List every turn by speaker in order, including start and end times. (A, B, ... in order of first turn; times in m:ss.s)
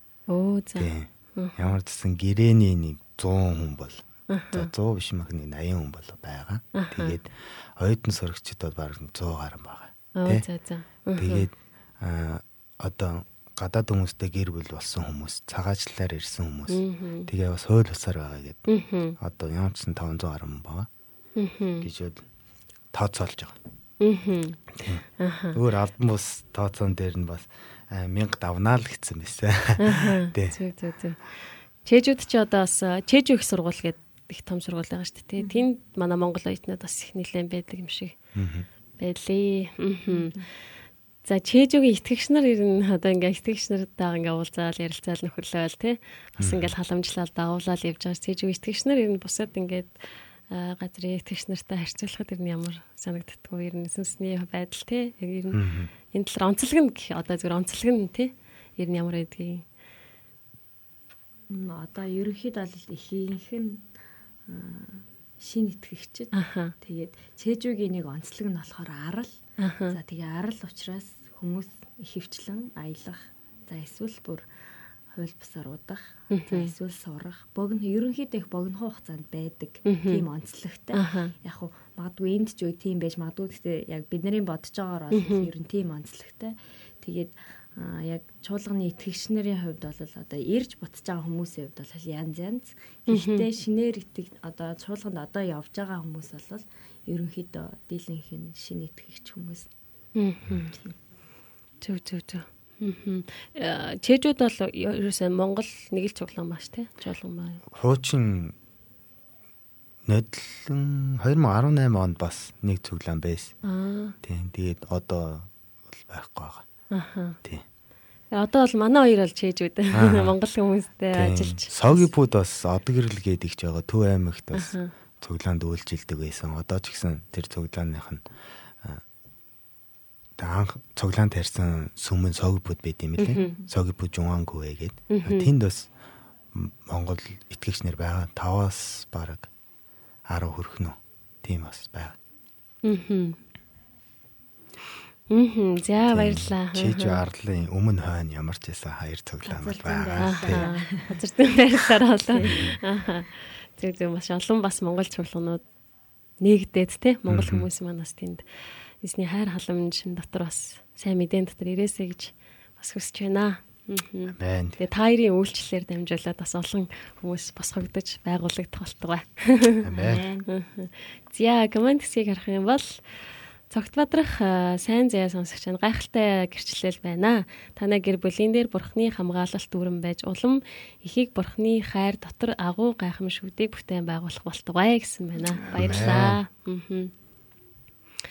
0:00.3-0:01.7 A
0:00.8-0:10.4 B
0:04.3-0:04.7 A
0:06.8-0:07.2 A
0:10.2-0:11.5 A
0:11.2-0:18.7 B
0:16.7-0:17.3 A
0:18.7-0:19.2 A
0:19.2-0:20.9 B
0:21.4-0:21.9 A
0:21.8-0:22.2 B
0:22.9-0:23.6 B
0:24.0-0:24.6 A
0:24.8-0:30.6 B
0:25.2-0:25.6 A
0:29.8-0:31.2 A
0:31.8-0:38.1 A
0:35.4-0:35.7 C
0:38.4-0:38.6 B
0:39.0-0:40.4 A
0:40.1-0:40.5 C
0:41.2-0:50.0 A
0:46.4-0:46.7 B
0:50.5-0:55.6 A
0:55.5-0:55.9 B
0:56.1-0:59.6 A
1:01.5-1:03.8 C
1:04.5-1:09.4 C
1:06.3-1:06.7 A
1:09.6-1:10.0 A
1:09.9-1:14.5 C
1:15.1-1:39.7 C
1:16.3-1:16.7 A
1:19.8-1:20.2 A
1:20.9-1:21.3 A
1:25.1-1:25.5 A
1:33.1-1:33.4 A
1:40.2-1:40.7 A
1:40.6-1:41.0 C
1:41.8-1:47.6 A
1:47.7-1:48.5 B
1:50.0-1:53.5 B
1:53.7-1:54.2 A
1:54.2-1:56.6 B
1:56.9-1:57.4 A
1:58.3-2:02.1 A
1:59.9-2:00.4 B
2:01.1-2:08.2 B
2:04.5-2:04.9 A
2:10.4-2:15.9 B
2:13.2-2:13.4 A
2:13.4-2:13.7 C
2:15.1-2:15.5 A
2:16.5-2:19.5 B
2:20.3-2:22.2 B
2:22.8-2:23.4 A
2:25.3-2:27.2 A
2:26.1-2:30.6 B
2:29.4-2:31.2 C
2:30.2-2:35.6 A
2:32.4-2:32.7 C
2:32.5-2:32.7 B
2:36.4-2:38.4 A
2:37.3-2:37.7 B
2:39.0-2:49.8 A
2:44.3-2:44.8 B
2:49.8-2:50.2 B
2:49.9-2:50.5 C
2:50.5-2:53.0 A
2:53.7-3:07.1 A
3:05.4-3:06.2 C
3:05.7-3:06.4 B